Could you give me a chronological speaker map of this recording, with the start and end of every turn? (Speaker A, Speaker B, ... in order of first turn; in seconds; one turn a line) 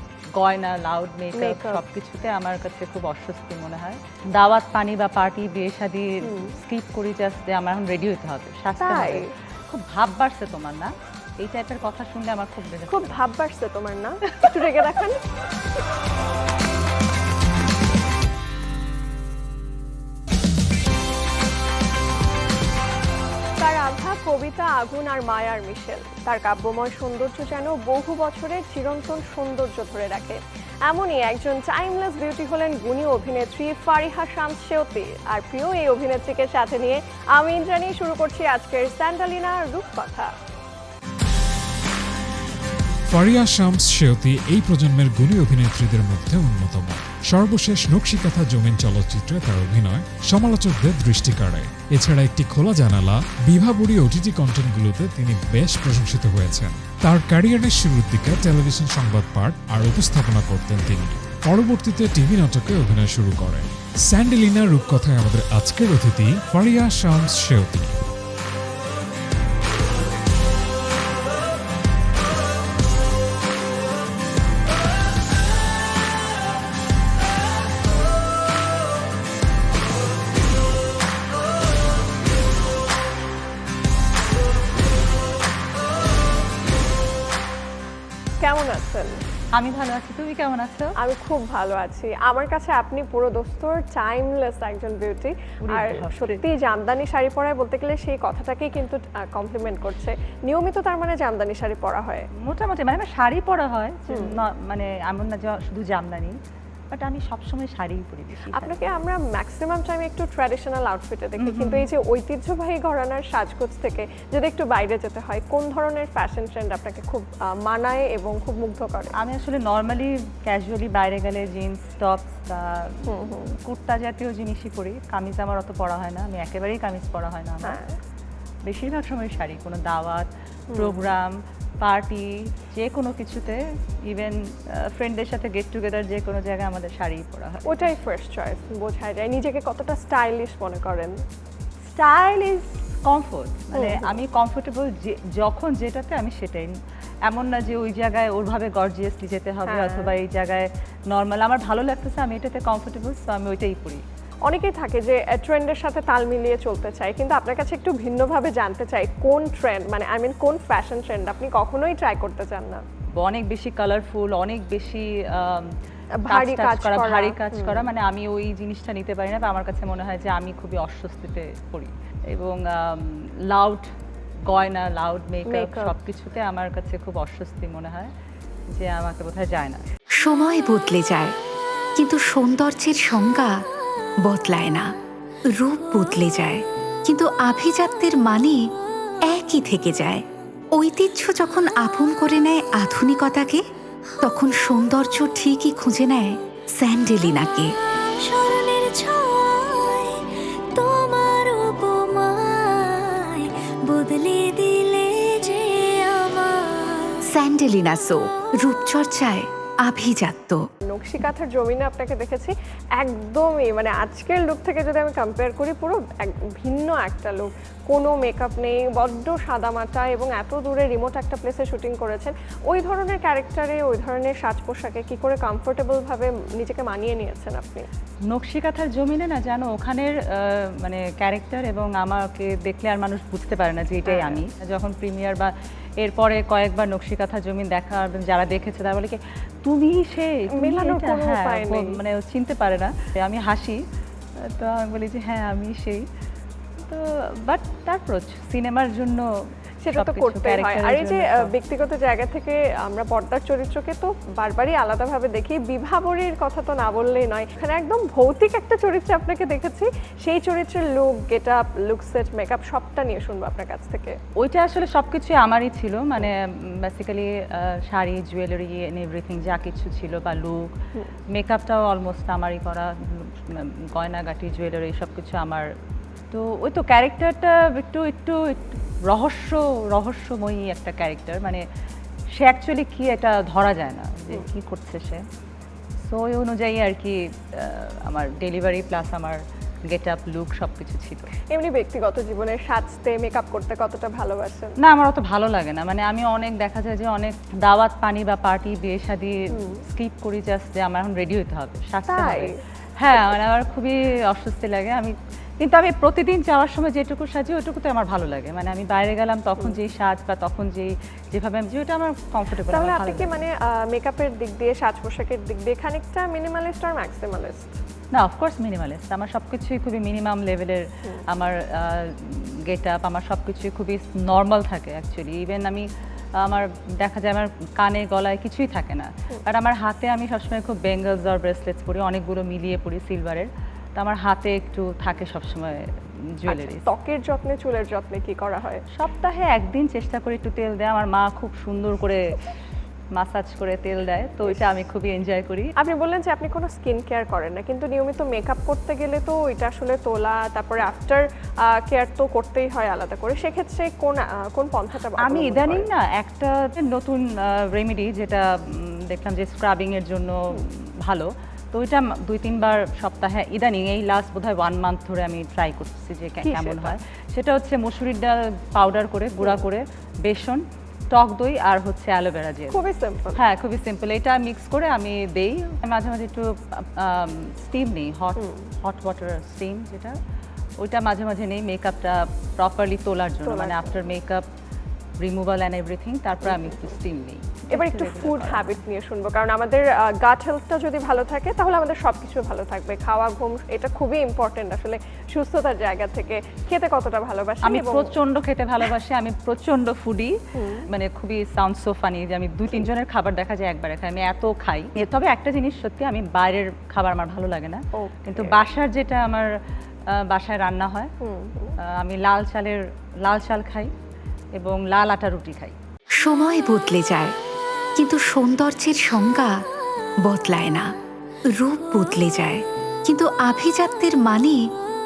Speaker A: 0.3-13.2
Speaker B: 1.3-1.8
Speaker B: 6.2-6.5
Speaker B: 8.8-9.3
Speaker B: 12.9-15.2
Speaker B: 23.6-40.3
Speaker C: 43.1-67.9
Speaker B: 88.4-89.2
Speaker A: 89.5-90.9
Speaker B: 91.0-102.3
Speaker A: 95.6-96.4
Speaker A: 102.4-106.4
Speaker B: 104.1-104.3
Speaker A: 106.9-108.8
Speaker B: 108.5-119.1
Speaker A: 111.4-111.9
Speaker A: 119.2-123.0
Speaker B: 123.0-123.5
Speaker A: 123.5-127.8
Speaker B: 127.6-128.0
Speaker A: 128.7-138.0
Speaker B: 130.7-131.1
Speaker B: 137.7-141.2
Speaker A: 141.9-146.7
Speaker B: 143.7-144.2
Speaker A: 147.3-154.0
Speaker B: 149.7-150.1
Speaker B: 154.4-162.8
Speaker A: 163.2-165.7
Speaker B: 166.2-167.9
Speaker A: 166.3-173.9
Speaker A: 174.5-178.1
Speaker B: 175.4-175.9
Speaker A: 178.7-179.8
Speaker D: 180.2-181.3
Speaker D: 181.9-183.6
Speaker D: 184.2-184.9
Speaker D: 185.5-188.7
Speaker D: 189.2-193.6
Speaker D: 194.2-197.7
Speaker E: 198.2-207.2
Speaker D: 207.3-210.6
Speaker B: 210.8-227.9
Speaker A: 228.3-243.8
Speaker B: 234.1-234.4
Speaker B: 240.6-242.0
Speaker A: 244.5-246.0
Speaker A: 246.8-249.3
Speaker B: 249.8-264.2
Speaker A: 249.9-251.5
Speaker A: 264.4-270.7
Speaker A: 271.3-275.7
Speaker A: 276.3-281.6
Speaker A: 282.4-285.2
Speaker A: 286.0-291.3
Speaker B: 291.5-294.8
Speaker A: 294.8-313.4
Speaker B: 299.5-299.8
Speaker B: 302.1-302.6
Speaker B: 312.7-317.8
Speaker A: 318.1-325.9
Speaker A: 326.4-335.9
Speaker A: 336.4-336.9
Speaker B: 336.5-338.8
Speaker A: 338.9-342.3
Speaker A: 343.1-345.7
Speaker B: 345.8-355.9
Speaker A: 355.2-372.8
Speaker B: 366.4-367.0
Speaker B: 372.7-373.4
Speaker A: 373.4-380.1
Speaker B: 378.4-378.7
Speaker A: 380.8-384.4
Speaker B: 383.4-384.0
Speaker A: 385.2-388.7
Speaker B: 386.4-386.9
Speaker B: 387.7-398.1
Speaker A: 397.6-400.4
Speaker B: 400.5-400.9
Speaker A: 400.9-409.5
Speaker B: 407.9-408.6
Speaker A: 410.1-411.1
Speaker B: 411.2-411.8
Speaker A: 411.8-413.9
Speaker A: 414.6-415.8
Speaker D: 416.2-417.3
Speaker D: 417.9-419.6
Speaker D: 420.2-420.9
Speaker D: 421.5-424.7